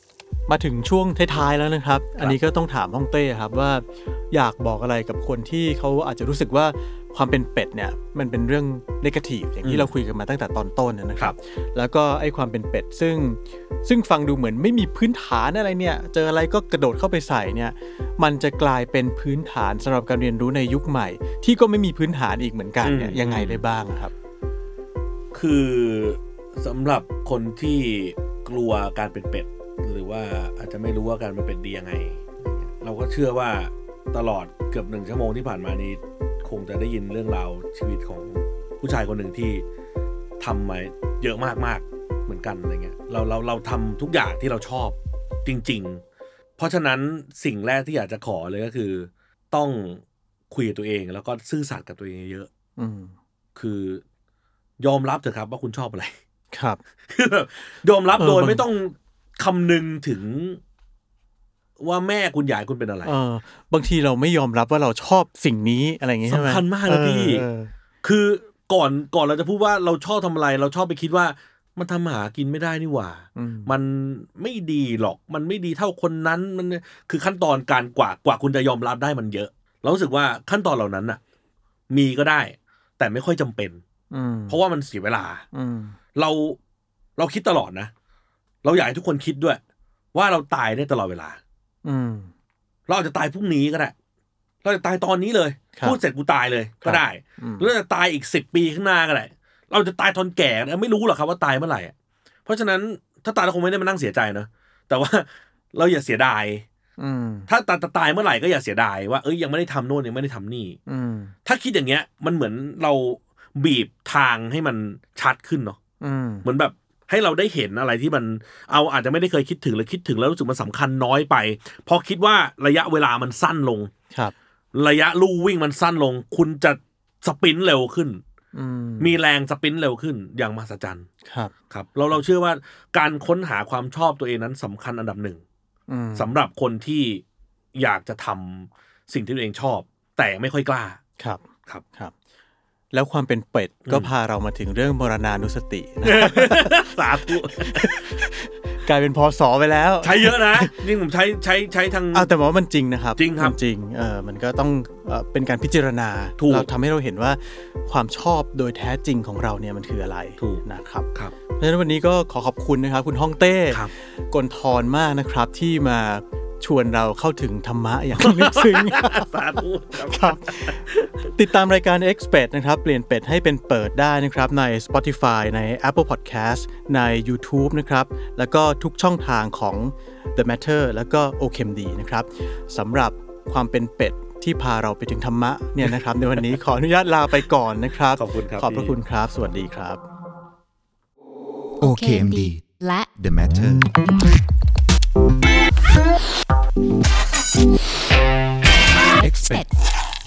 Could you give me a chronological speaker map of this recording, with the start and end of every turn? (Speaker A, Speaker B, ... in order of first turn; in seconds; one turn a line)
Speaker A: 0.5-24.1
Speaker B: 9.6-9.9
Speaker B: 22.8-23.6
Speaker B: 25.3-39.6
Speaker B: 40.4-46.0
Speaker B: 46.6-52.5
Speaker A: 52.8-53.1
Speaker B: 53.6-54.0
Speaker B: 54.8-56.2
Speaker A: 56.5-56.8
Speaker B: 57.1-60.6
Speaker A: 58.2-58.6
Speaker B: 61.8-63.1
Speaker A: 63.0-67.7
Speaker B: 66.3-67.5
Speaker B: 68.0-81.2
Speaker A: 73.4-73.7
Speaker B: 81.9-83.8
Speaker A: 84.1-84.6
Speaker B: 84.5-85.5
Speaker A: 85.5-86.0
Speaker B: 86.2-86.6
Speaker B: 87.2-87.9
Speaker B: 88.6-89.6
Speaker B: 90.1-91.4
Speaker A: 91.8-92.3
Speaker B: 92.9-93.9
Speaker B: 94.6-101.9
Speaker A: 95.7-96.0
Speaker A: 96.8-97.7
Speaker B: 102.5-106.7
Speaker A: 107.0-107.5
Speaker B: 107.5-110.8
Speaker A: 110.9-111.3
Speaker B: 111.5-115.8
Speaker A: 116.0-116.5
Speaker B: 116.4-123.9
Speaker B: 124.7-128.2
Speaker A: 128.5-129.2
Speaker B: 129.0-131.1
Speaker A: 131.2-131.5
Speaker B: 131.7-135.4
Speaker A: 135.9-136.3
Speaker B: 136.2-137.2
Speaker B: 137.8-141.0
Speaker A: 141.2-141.4
Speaker A: 142.9-146.9
Speaker B: 146.0-148.2
Speaker A: 147.5-150.8
Speaker B: 150.0-152.3
Speaker A: 152.1-190.0
Speaker B: 153.2-153.6
Speaker B: 156.4-156.7
Speaker B: 168.2-171.1
Speaker B: 188.2-189.0
Speaker C: 191.8-192.6
Speaker D: 191.8-193.1
Speaker C: 193.2-193.9
Speaker D: 199.0-199.7
Speaker C: 199.2-199.7